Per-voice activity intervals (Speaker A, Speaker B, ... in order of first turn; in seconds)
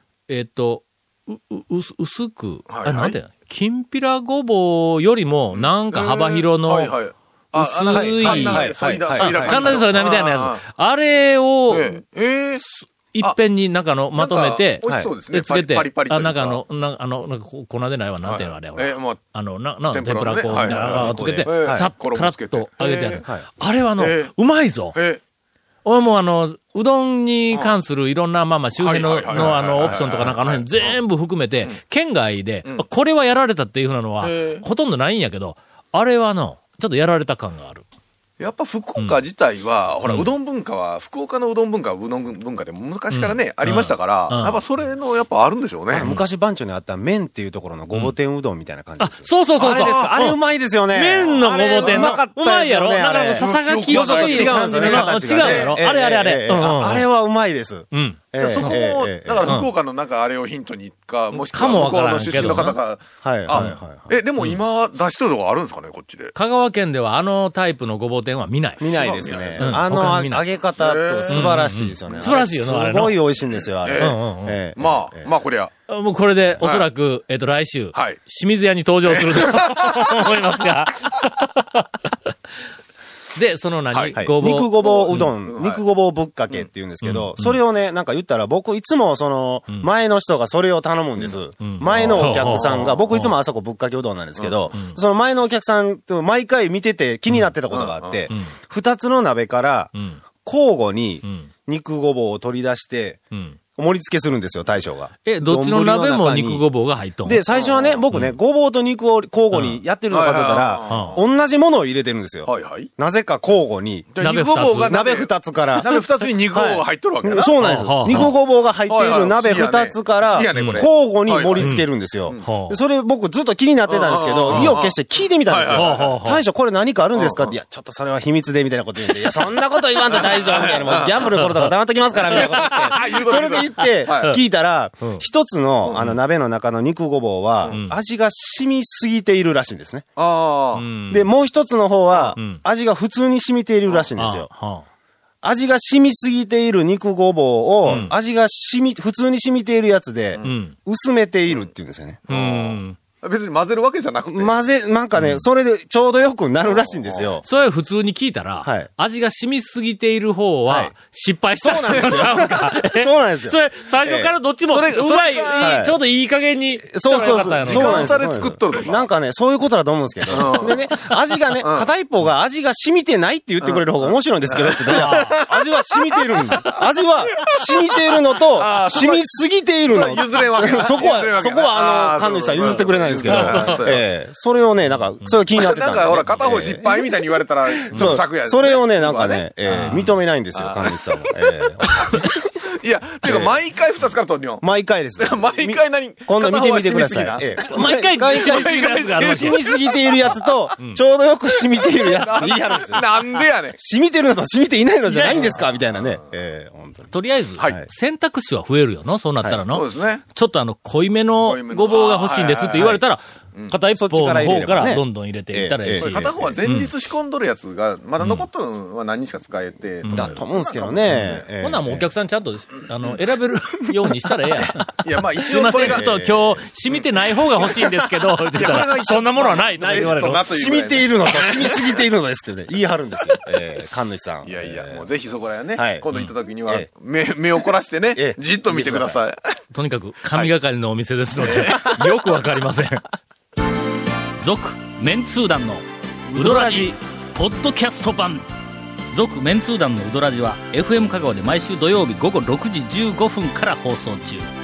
Speaker A: 0.3-6.9, 7.5-12.0, 12.6-25.0, 25.9-37.9, 43.1-44.6, 46.0-46.2, 49.0-50.4, 50.9-57.1, 57.9-58.8, 61.4-62.8, 63.5-63.8, 66.3-68.9, 69.6-70.5, 71.3-73.2, 74.0-74.6, 75.9-82.1, 83.3-85.3, 87.0-87.6, 91.2-93.3, 100.0-100.2, 101.2-101.5, 103.3-103.6, 105.3-107.4, 108.1-108.4, 109.5-109.8, 110.9-111.2, 114.2-115.0, 117.6-118.3, 120.5-120.8, 121.6-121.8, 122.4-122.8, 124.5-124.8, 125.7-126.4, 131.2-131.7, 132.3-133.0, 137.7-138.0, 140.8-141.3, 142.4-142.6, 144.2-144.8, 147.9-148.1, 150.4-150.8, 152.3-153.0, 155.2-155.4, 157.4-168.2, 174.9-175.4, 176.5-176.8, 182.7-183.9, 184.9-185.4, 187.9-188.2, 189.7-190.1, 197.7-199.6, 205.1-205.6, 207.1-216.9, 218.2-218.5, 220.0-220.4, 221.6-230.4, 239.7-243.0, 244.4-248.5, 249.1-254.5
Speaker B: 2.7-3.2, 5.5-10.6, 11.7-12.6, 14.2-16.6, 18.2-19.2, 19.9-23.2, 24.0-24.3, 24.9-25.2, 28.8-31.0, 34.2-34.6, 38.4-46.1, 49.6-50.1, 51.5-52.2, 53.4-55.8, 58.4-66.3, 68.8-69.8, 70.8-71.6, 73.8-74.2, 74.8-75.7, 79.1-80.2, 83.9-84.2, 84.8-85.8, 91.9-93.0, 94.4-94.7, 97.7-98.3, 107.5-108.0, 110.1-111.2, 112.5-112.9, 114.1-121.8, 123.9-125.0, 125.5-126.2, 127.2-127.5, 130.1-131.3, 132.2-134.4, 140.2-140.9, 152.3-154.6, 156.7-157.4, 164.7-165.9, 167.1-169.1, 170.3-170.9, 171.6-171.9, 173.6-176.3, 178.6-179.2, 179.9-184.0, 185.6-190.0, 190.5-194.7, 195.2-200.5, 201.7-203.8, 205.3-206.2, 209.7-210.2, 211.4-213.0, 216.0-221.4, 225.0-226.1, 228.5-232.0, 234.4-239.4, 241.4-242.0
Speaker C: 7.9-9.9, 14.9-15.1, 20.5-21.9, 45.9-59.5, 63.2-64.1, 68.8-75.3, 84.2-103.2, 103.8-106.6, 107.2-114.2, 114.7-115.9, 116.5-140.1, 141.1-144.5, 145.4-152.3, 154.3-157.4, 158.6-158.9, 160.7-160.9, 161.6-164.3, 165.6-165.9, 166.9-187.1, 187.8-192.4, 193.2-193.5, 194.6-207.9, 213.9-216.6, 220.1-222.1, 225.8-226.6, 229.8-235.1, 235.8-236.1, 238.2-239.2, 246.3-246.9